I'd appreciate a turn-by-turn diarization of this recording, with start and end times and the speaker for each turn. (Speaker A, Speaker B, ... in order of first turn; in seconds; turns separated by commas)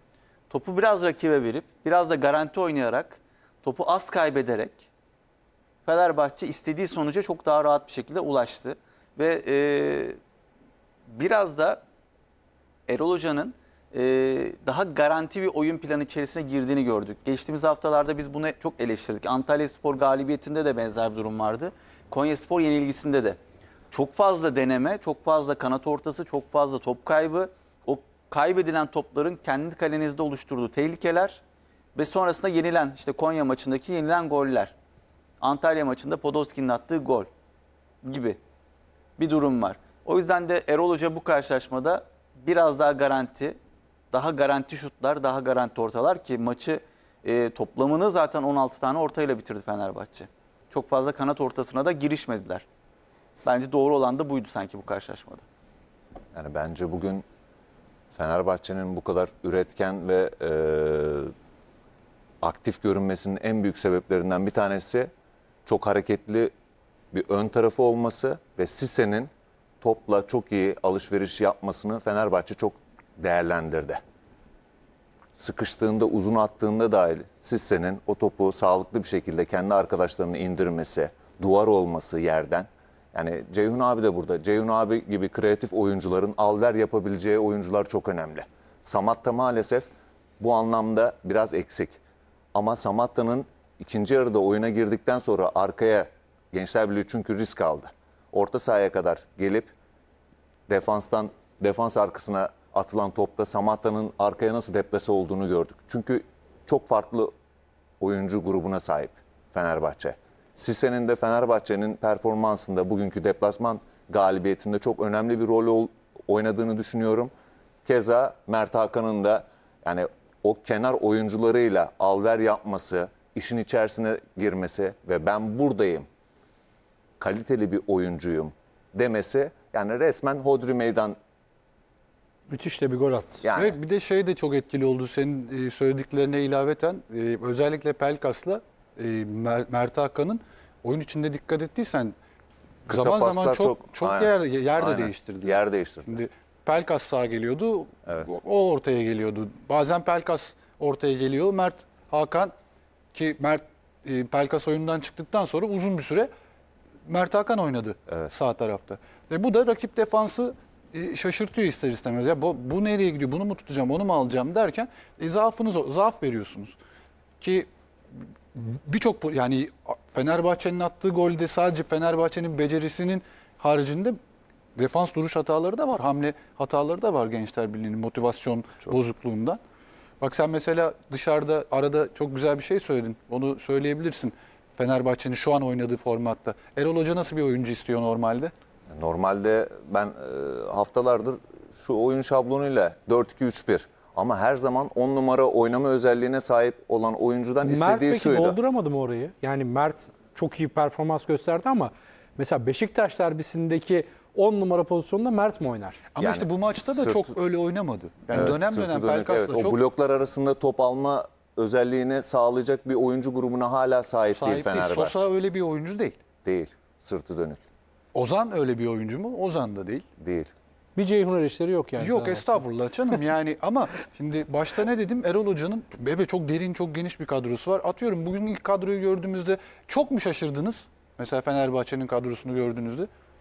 Speaker A: 0.5-4.9, Speaker A: 5.8-10.2, Speaker A: 11.1-11.8, Speaker A: 12.9-23.4, Speaker A: 23.9-31.4, Speaker A: 32.0-34.7, Speaker A: 35.4-37.3, Speaker A: 38.0-38.4, Speaker A: 39.2-43.6, Speaker A: 44.1-52.6, Speaker A: 53.4-55.4, Speaker B: 56.4-57.2, Speaker B: 58.1-61.3, Speaker B: 62.4-65.1, Speaker B: 65.7-66.5, Speaker B: 67.1-69.3, Speaker B: 69.8-74.0, Speaker B: 75.3-89.9, Speaker B: 90.4-92.0, Speaker B: 92.5-99.7, Speaker B: 100.7-107.3, Speaker B: 108.0-117.3, Speaker B: 117.8-126.1, Speaker B: 127.2-131.2, Speaker C: 132.5-133.4, Speaker B: 133.4-133.8, Speaker D: 133.6-142.2, Speaker D: 142.9-152.5, Speaker B: 142.9-146.3, Speaker D: 153.1-156.3, Speaker D: 157.1-166.8, Speaker D: 167.4-167.7, Speaker D: 168.5-174.2, Speaker D: 174.8-179.6, Speaker D: 180.2-188.5, Speaker B: 188.9-198.6, Speaker C: 197.6-206.0, Speaker D: 206.1-209.8, Speaker B: 206.2-207.3, Speaker B: 208.3-215.3, Speaker D: 214.3-216.2, Speaker B: 216.4-217.6, Speaker D: 218.1-220.1, Speaker B: 220.2-220.5, Speaker C: 221.0-222.6, Speaker D: 222.0-233.1